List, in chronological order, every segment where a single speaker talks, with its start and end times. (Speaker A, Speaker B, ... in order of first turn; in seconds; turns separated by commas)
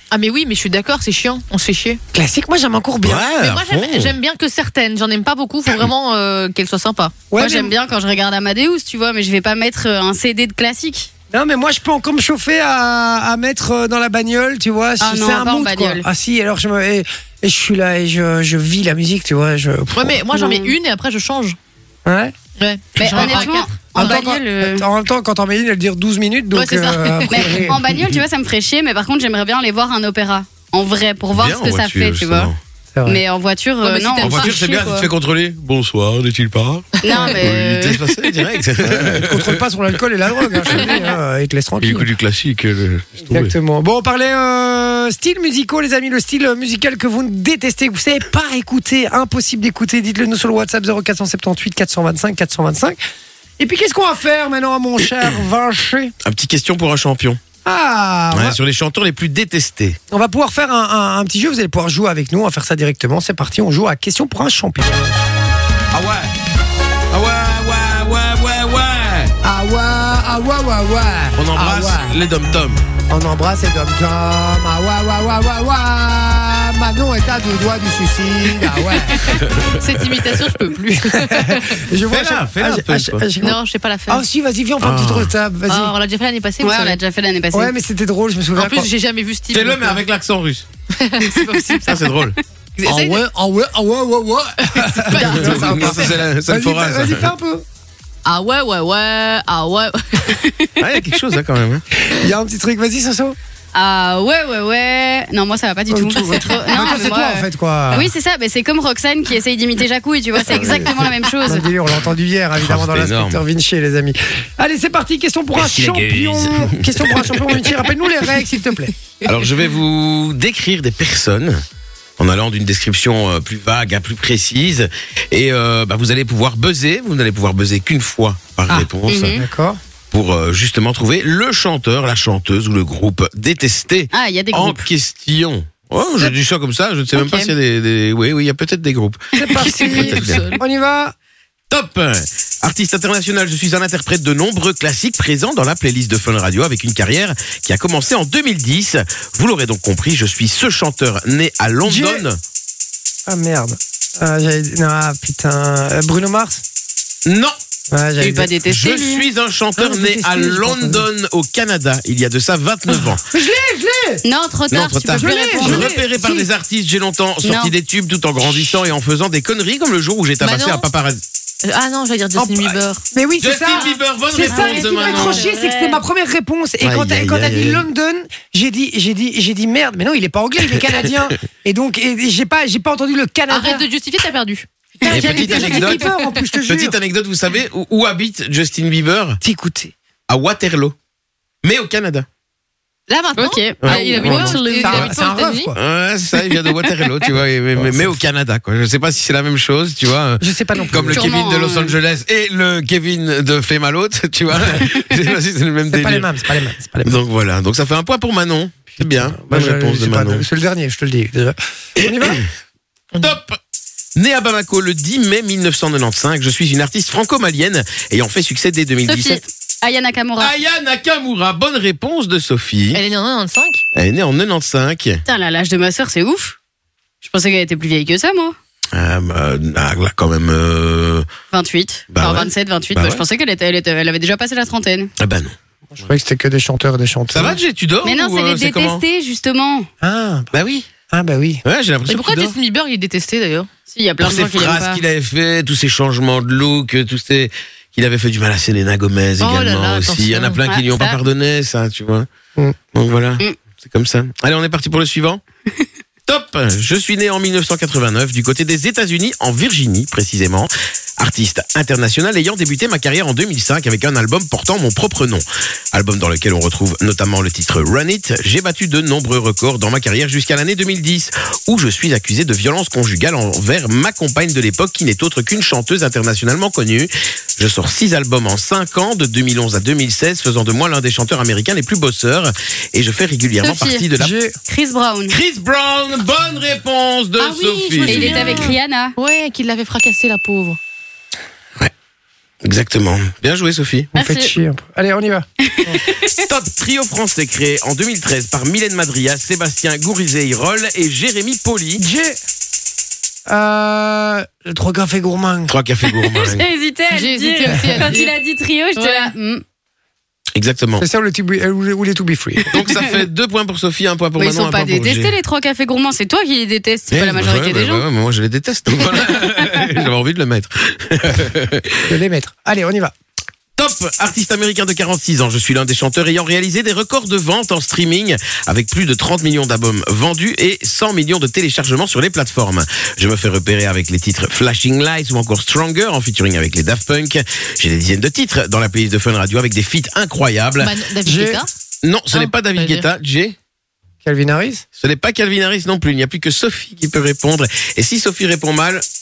Speaker A: 0.1-2.0, Speaker B: 2.1-3.3, Speaker C: 3.0-4.1, Speaker A: 3.4-7.2, Speaker B: 7.3-7.7, Speaker D: 7.4-11.1, Speaker B: 11.3-20.2, Speaker D: 15.0-16.1, Speaker A: 19.9-21.6, Speaker D: 20.3-20.7, Speaker B: 22.1-22.4, Speaker A: 22.6-24.2, Speaker D: 23.0-24.9, Speaker B: 23.1-27.8, Speaker A: 26.5-27.7, Speaker D: 27.3-32.5, Speaker C: 31.3-32.6, Speaker B: 32.9-33.2, Speaker D: 33.1-35.1, Speaker A: 33.8-34.9, Speaker C: 34.2-39.6, Speaker D: 37.0-38.0, Speaker B: 38.8-42.1, Speaker C: 40.5-40.9, Speaker C: 41.8-43.5, Speaker B: 43.3-53.0, Speaker B: 53.6-56.1, Speaker C: 56.2-57.4, Speaker B: 57.6-58.6, Speaker C: 58.3-60.0, Speaker B: 60.1-65.2, Speaker C: 65.9-66.3, Speaker C: 67.1-69.3, Speaker B: 69.4-72.2, Speaker C: 71.4-72.8, Speaker B: 73.1-79.4, Speaker C: 79.3-79.8, Speaker A: 79.8-81.9, Speaker B: 81.0-85.9, Speaker C: 82.1-83.2, Speaker A: 83.4-84.2, Speaker C: 84.8-85.3, Speaker A: 85.7-87.0, Speaker D: 86.6-87.7, Speaker B: 87.5-88.9, Speaker A: 88.6-90.0, Speaker C: 89.5-90.7, Speaker A: 91.0-92.1, Speaker C: 91.8-92.3, Speaker A: 92.8-93.2, Speaker B: 92.8-97.7, Speaker A: 94.6-96.1, Speaker C: 95.2-97.3, Speaker A: 98.2-100.4, Speaker D: 100.4-100.8, Speaker C: 100.8-101.8, Speaker B: 102.0-103.4, Speaker D: 103.7-111.7, Speaker B: 105.9-108.1, Speaker C: 110.5-111.1, Speaker B: 110.5-110.9, Speaker B: 111.4-118.9, Speaker C: 112.6-113.4, Speaker C: 115.6-117.7, Speaker C: 119.2-121.6, Speaker C: 122.2-129.4, Speaker B: 128.7-129.8, Speaker D: 129.1-129.4, Speaker C: 130.1-140.4, Speaker D: 134.1-134.9, Speaker D: 137.2-137.5, Speaker B: 139.3-141.2, Speaker A: 139.5-140.6, Speaker C: 141.7-152.4, Speaker B: 151.8-152.3, Speaker B: 153.3-156.6, Speaker C: 157.2-157.6, Speaker B: 157.9-158.6, Speaker D: 158.2-159.2, Speaker C: 158.6-163.2, Speaker B: 159.8-161.1, Speaker B: 163.3-164.2, Speaker D: 164.2-166.2, Speaker C: 164.7-171.2, Speaker B: 165.1-166.0, Speaker D: 167.4-167.7, Speaker A: 170.4-170.9, Speaker A: 171.6-173.0, Speaker B: 172.4-183.8, Speaker C: 173.4-175.4, Speaker D: 174.4-176.0, Speaker C: 176.8-177.8, Speaker A: 183.5-186.4, Speaker B: 185.0-187.0, Speaker C: 185.1-186.1, Speaker C: 186.7-189.4, Speaker B: 189.4-189.9, Speaker C: 190.3-190.9, Speaker C: 191.6-192.3, Speaker A: 193.1-195.7, Speaker D: 193.4-194.8, Speaker C: 193.8-195.1, Speaker B: 194.2-195.8, Speaker C: 195.7-206.3, Speaker B: 197.8-198.2, Speaker B: 200.4-201.4, Speaker D: 201.1-202.0, Speaker B: 205.9-207.2, Speaker C: 207.0-210.4, Speaker B: 209.0-212.4, Speaker C: 212.0-212.4, Speaker C: 213.2-213.6, Speaker C: 214.2-219.4, Speaker D: 219.1-220.5, Speaker C: 220.4-223.0, Speaker A: 222.9-223.8, Speaker C: 223.9-225.2, Speaker D: 225.3-226.6, Speaker D: 227.2-228.6, Speaker C: 228.9-231.3, Speaker D: 231.5-235.1, Speaker C: 232.1-233.2, Speaker C: 235.2-235.6, Speaker B: 235.9-237.6, Speaker C: 237.3-239.0, Speaker D: 238.0-239.9, Speaker B: 240.0-240.5, Speaker C: 240.5-240.9, Speaker B: 241.1-241.6, Speaker C: 241.7-242.6, Speaker A: 242.1-243.7, Speaker D: 243.9-245.0, Speaker C: 244.2-252.3, Speaker A: 249.4-250.6, Speaker D: 250.7-251.2, Speaker C: 252.9-255.4, Speaker C: 256.3-284.4, Speaker D: 283.6-284.1, Speaker B: 284.2-284.6, Speaker D: 284.7-285.4, Speaker C: 285.3-288.7, Speaker A: 287.4-290.8, Speaker D: 288.0-289.1, Speaker C: 292.6-294.1, Speaker D: 294.1-294.6, Speaker B: 294.1-296.0, Speaker D: 295.6-296.4, Speaker C: 296.4-302.0, Speaker B: 302.0-302.4, Speaker B: 303.5-305.8, Speaker C: 305.7-306.6, Speaker D: 306.0-309.6, Speaker A: 307.1-308.3, Speaker B: 307.7-308.1, Speaker A: 309.0-309.3, Speaker C: 310.6-311.1, Speaker B: 311.0-312.8, Speaker C: 312.7-315.3, Speaker D: 314.4-318.1, Speaker C: 317.1-322.1, Speaker B: 322.1-323.1, Speaker C: 323.8-340.9, Speaker A: 340.8-341.7, Speaker B: 341.2-341.6, Speaker C: 342.0-343.6, Speaker A: 342.3-343.1, Speaker B: 344.2-344.8, Speaker C: 345.0-349.0